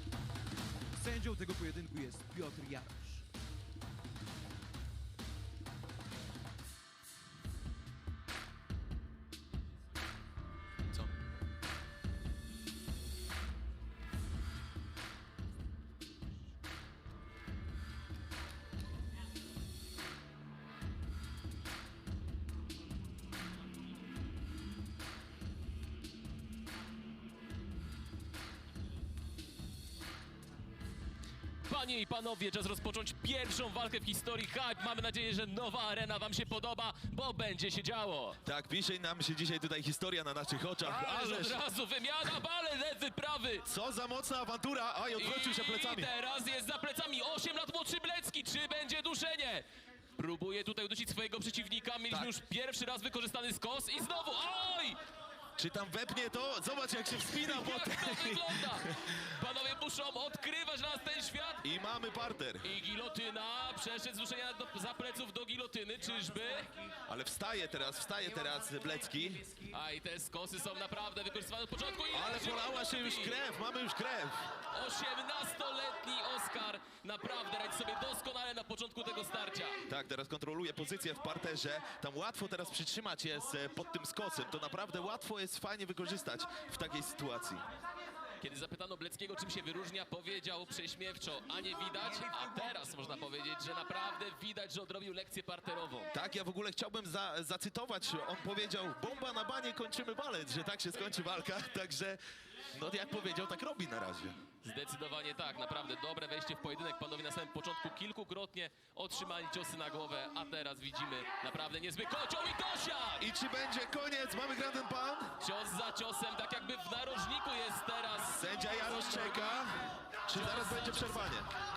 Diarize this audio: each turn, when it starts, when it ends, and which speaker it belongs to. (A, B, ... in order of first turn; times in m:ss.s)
0:00.9-0:03.2 A
0:31.6-0:38.4 B
0:38.4-0:41.6 C
0:40.8-0:43.6 B
0:43.6-0:46.1 C
0:45.1-0:49.6 B
0:50.2-0:55.0 B
0:55.6-0:59.0 C
0:57.2-1:01.6 B
1:01.6-1:02.7 C
1:02.6-1:06.7 B
1:07.1-1:09.5 C
1:09.6-1:13.4 B
1:12.1-1:14.4 C
1:14.7-1:19.8 B
1:19.9-1:27.6 C
1:28.4-1:36.1 B
1:36.1-1:42.2 C
1:42.7-1:44.4 C
1:44.6-1:53.3 B
1:53.2-1:55.3 C
1:55.4-1:59.5 B
1:58.2-2:01.5 C
2:00.3-2:01.4 B